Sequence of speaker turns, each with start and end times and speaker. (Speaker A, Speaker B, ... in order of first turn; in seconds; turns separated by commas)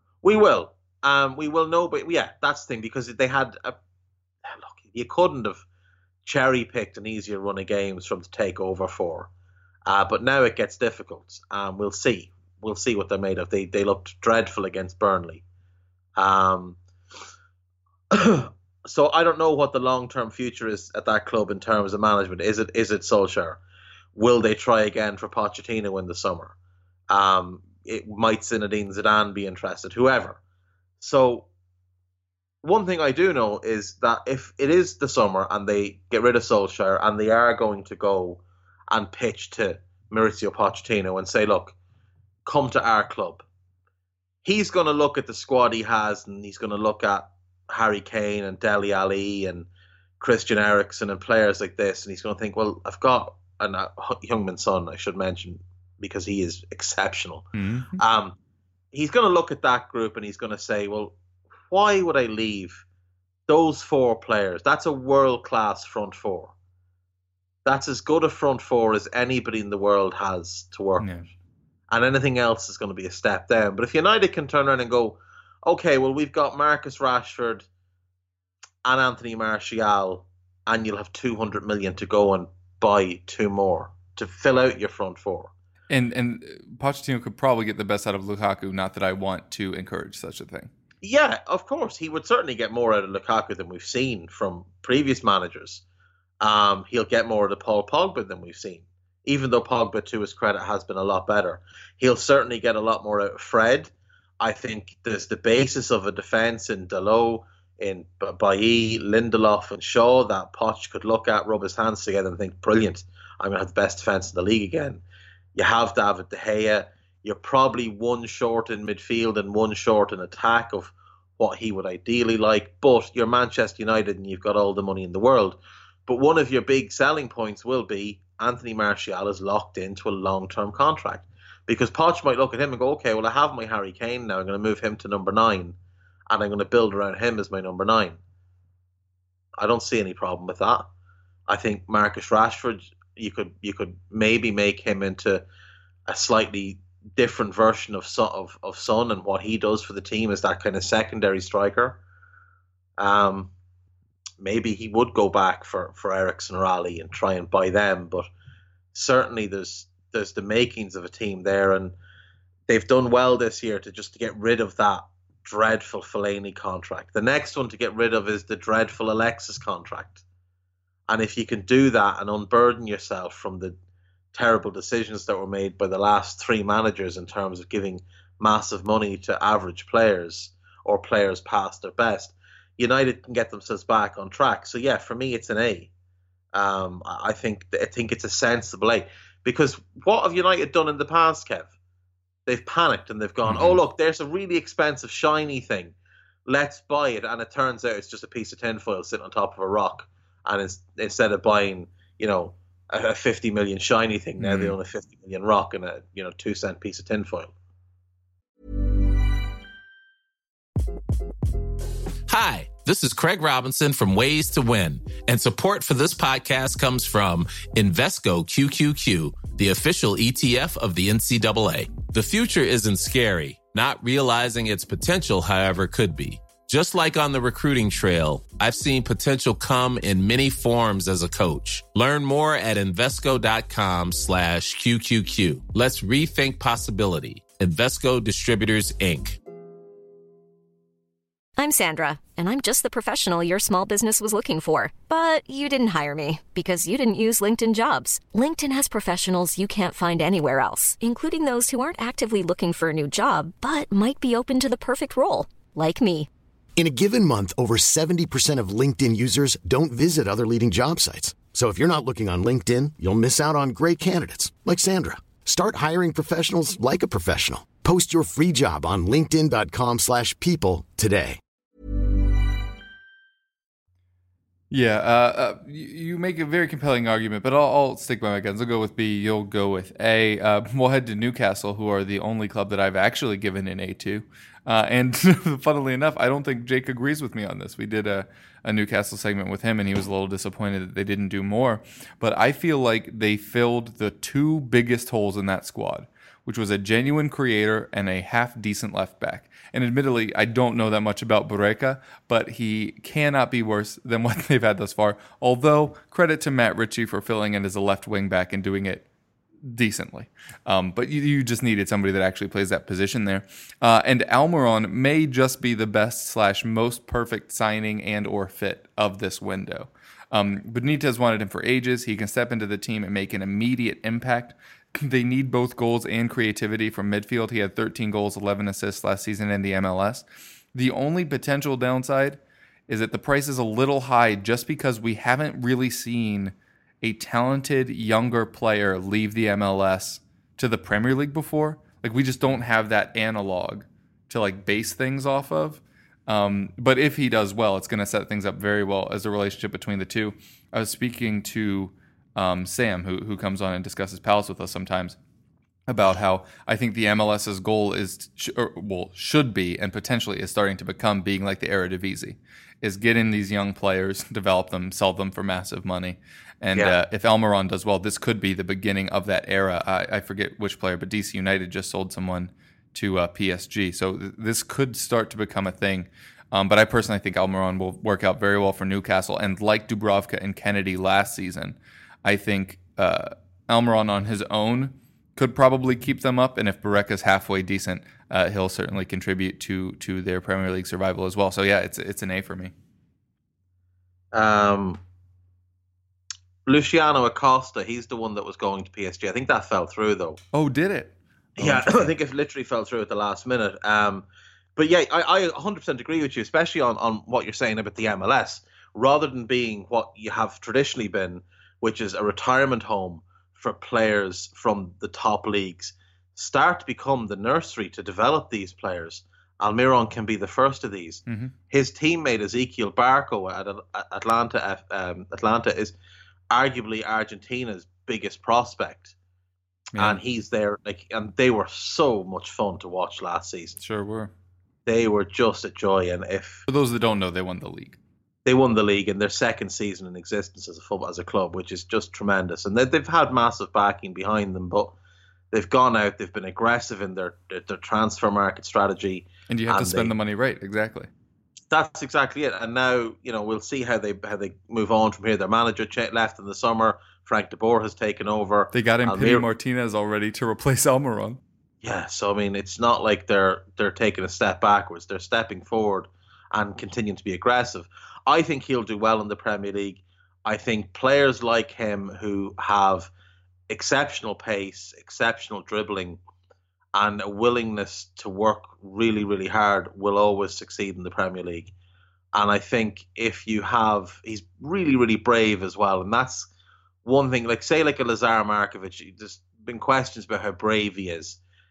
Speaker A: 0.2-3.8, Speaker A: 4.5-5.6, Speaker A: 6.2-9.3, Speaker A: 9.9-15.4, Speaker A: 16.2-16.8, Speaker A: 18.1-23.6, Speaker A: 24.1-26.6, Speaker A: 27.1-30.4, Speaker A: 31.0-31.5, Speaker A: 32.6-41.8, Speaker A: 42.5-43.4, Speaker A: 44.5-49.7, Speaker A: 50.2-58.4, Speaker B: 57.5-58.0, Speaker A: 58.9-61.1, Speaker A: 61.7-62.8, Speaker A: 63.5-66.5, Speaker A: 67.7-71.1, Speaker B: 71.0-71.3, Speaker A: 71.9-77.7, Speaker A: 78.8-85.5, Speaker B: 85.9-90.7, Speaker A: 91.0-95.8, Speaker A: 96.4-115.0, Speaker A: 115.5-135.8, Speaker A: 136.3-138.2, Speaker A: 139.6-140.9, Speaker A: 141.5-145.4, Speaker A: 146.1-152.0, Speaker A: 153.0-153.5, Speaker A: 154.4-158.3, Speaker A: 158.9-161.9, Speaker A: 162.7-170.2, Speaker A: 171.1-173.8, Speaker A: 174.3-185.9, Speaker A: 186.5-191.7, Speaker A: 192.5-195.9, Speaker B: 193.5-193.8, Speaker A: 196.5-207.5, Speaker B: 204.4-204.8, Speaker C: 212.3-239.4, Speaker D: 241.6-256.3, Speaker E: 256.8-271.4, Speaker B: 274.7-309.1, Speaker B: 309.6-355.2, Speaker B: 355.9-392.7, Speaker A: 394.3-395.0, Speaker A: 396.7-400.4, Speaker B: 400.5-402.1, Speaker A: 401.6-425.9, Speaker B: 421.3-421.5, Speaker A: 426.5-429.1, Speaker A: 430.0-433.8, Speaker B: 433.8-434.3, Speaker A: 434.9-436.7, Speaker B: 436.7-438.0, Speaker A: 438.4-444.9, Speaker A: 445.5-450.1, Speaker B: 449.5-451.1, Speaker A: 451.7-459.4, Speaker B: 458.7-461.4, Speaker A: 461.8-473.1, Speaker A: 473.7-476.2, Speaker A: 476.9-481.7, Speaker A: 482.3-486.5, Speaker A: 487.1-491.4